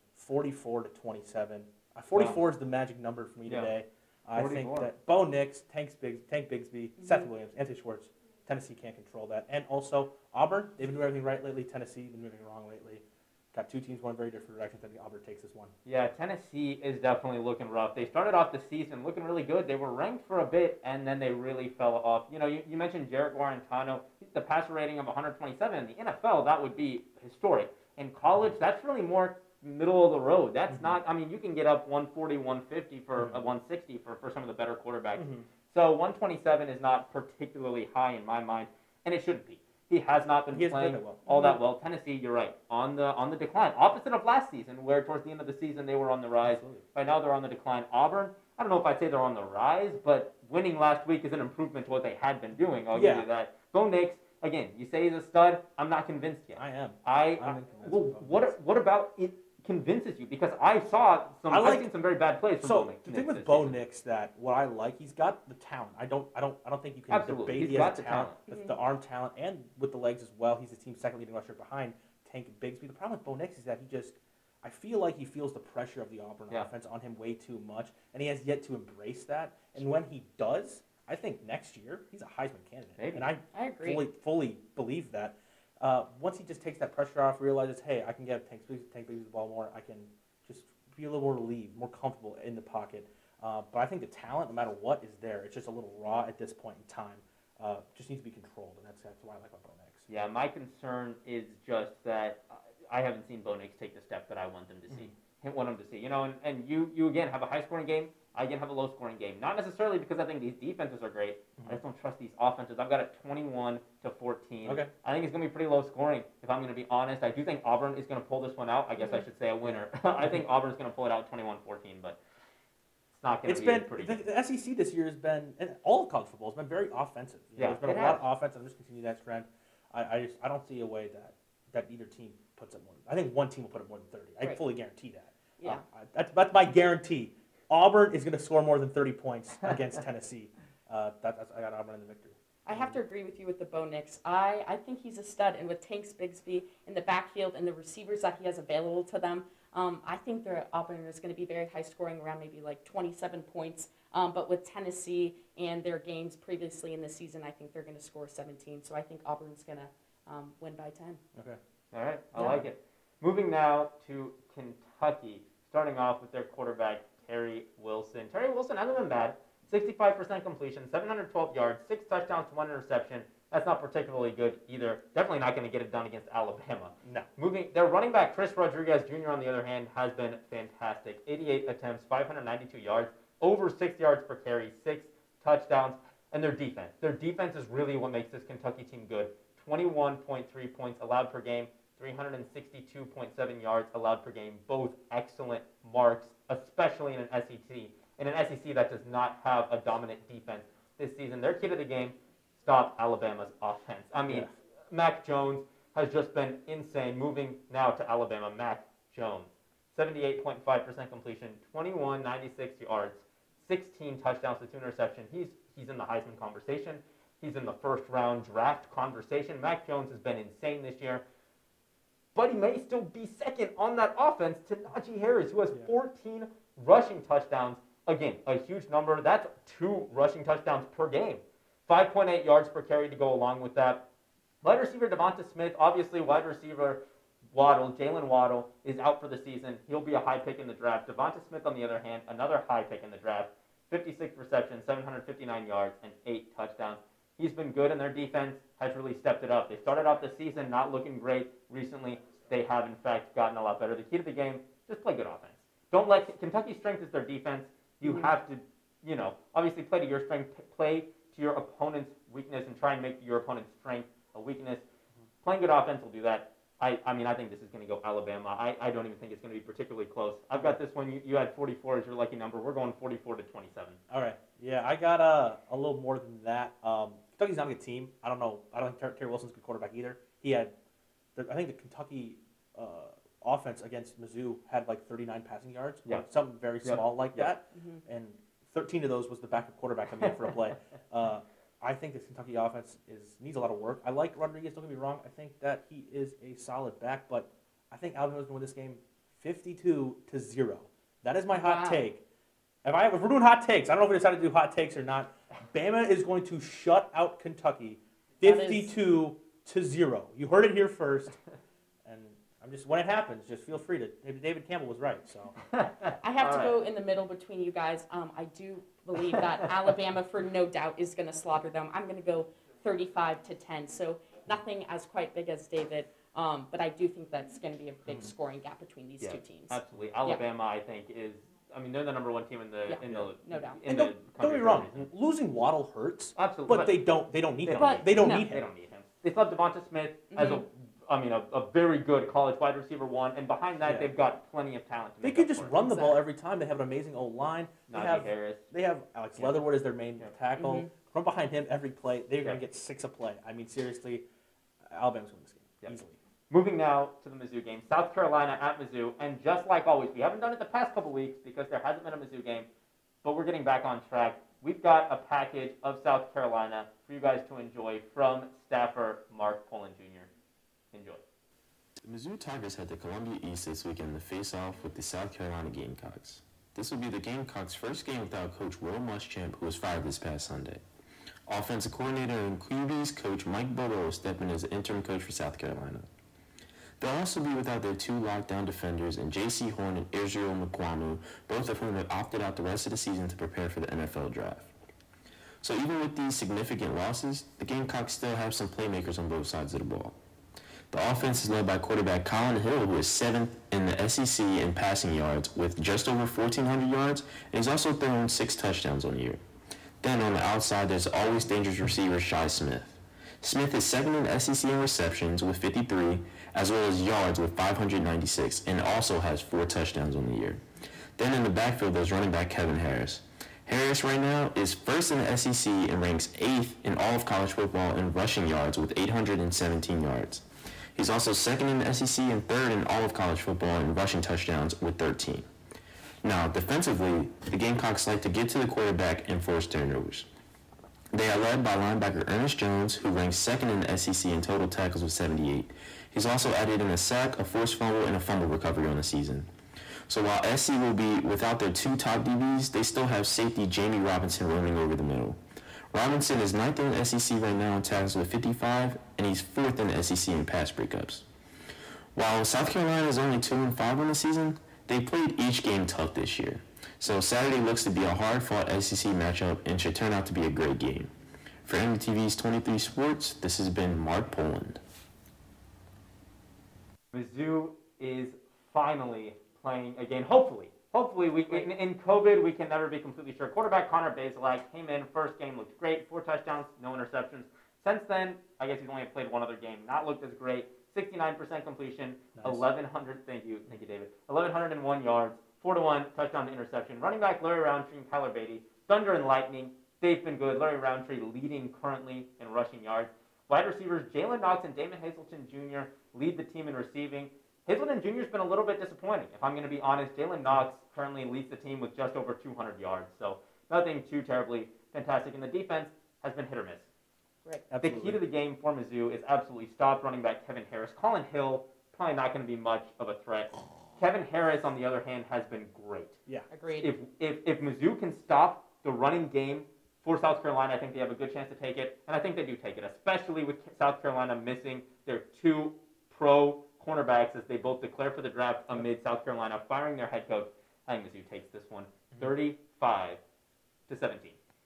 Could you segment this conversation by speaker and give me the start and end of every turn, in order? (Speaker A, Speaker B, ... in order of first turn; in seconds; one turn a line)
Speaker A: 0.1-15.7
Speaker B: 2.1-2.4
Speaker B: 3.5-3.7
Speaker B: 4.3-4.9
Speaker C: 7.0-7.3
Speaker B: 15.8-63.8
Speaker A: 30.7-31.0
Speaker A: 35.1-35.5
Speaker A: 40.5-41.2
Speaker C: 41.3-41.6
Speaker A: 46.5-46.9
Speaker A: 52.9-53.3
Speaker A: 56.6-58.5
Speaker A: 61.5-61.9
Speaker A: 62.6-100.1
Speaker B: 67.1-68.4
Speaker C: 68.5-68.8
Speaker B: 83.0-83.3
Speaker C: 83.5-84.0
Speaker B: 100.1-122.2
Speaker A: 104.9-105.1
Speaker A: 114.6-114.9
Speaker C: 119.0-119.2
Speaker A: 119.6-120.4
Speaker B: 123.1-124.2
Speaker A: 123.5-143.0
Speaker B: 127.6-128.2
Speaker C: 142.7-161.2
Speaker B: 161.9-221.2
Speaker A: 177.0-177.3
Speaker A: 204.3-204.5
Speaker B: 222.3-234.0
Speaker B: 234.6-237.0
Speaker B: 237.5-264.9
Speaker C: 258.0-258.3
Speaker B: 265.4-274.0
Speaker A: 270.5-270.8
Speaker A: 274.1-280.7
Speaker A: 281.4-302.2
Speaker B: 286.8-287.5
Speaker C: 287.8-288.0
Speaker C: 301.5-302.0
Speaker A: 302.9-311.4
Speaker C: 308.4-308.9
Speaker A: 312.1-315.6
Speaker B: 315.7-316.8
Speaker C: 316.2-330.4
Speaker B: 329.2-335.1
Speaker C: 332.9-333.8
Speaker A: 333.9-338.7
Speaker B: 336.4-337.0
Speaker B: 337.6-345.7
Speaker C: 337.7-338.5
Speaker C: 340.3-340.7
Speaker A: 343.8-344.1
Speaker A: 345.2-354.3
Speaker C: 345.8-346.2
Speaker B: 347.9-348.6
Speaker B: 349.4-349.6
Speaker C: 350.6-350.9
Speaker A: 354.9-356.2
Speaker B: 356.5-362.7
Speaker B: 363.2-370.3
Speaker B: 370.9-371.2
Speaker D: 372.0-380.8
Speaker D: 381.5-386.1
Speaker D: 387.0-394.7
Speaker D: 395.6-400.2
Speaker D: 400.9-409.4
Speaker D: 410.0-420.6
Speaker D: 421.2-435.5
Speaker D: 436.2-440.3
Speaker D: 441.1-449.5
Speaker D: 450.1-455.4
Speaker D: 455.9-461.3
Speaker D: 462.1-471.1
Speaker D: 471.6-474.8
Speaker B: 477.1-516.9
Speaker A: 492.4-492.7
Speaker A: 517.7-518.2
Speaker B: 517.8-526.2
Speaker C: 526.5-526.9
Speaker B: 526.7-543.2
Speaker B: 543.9-544.4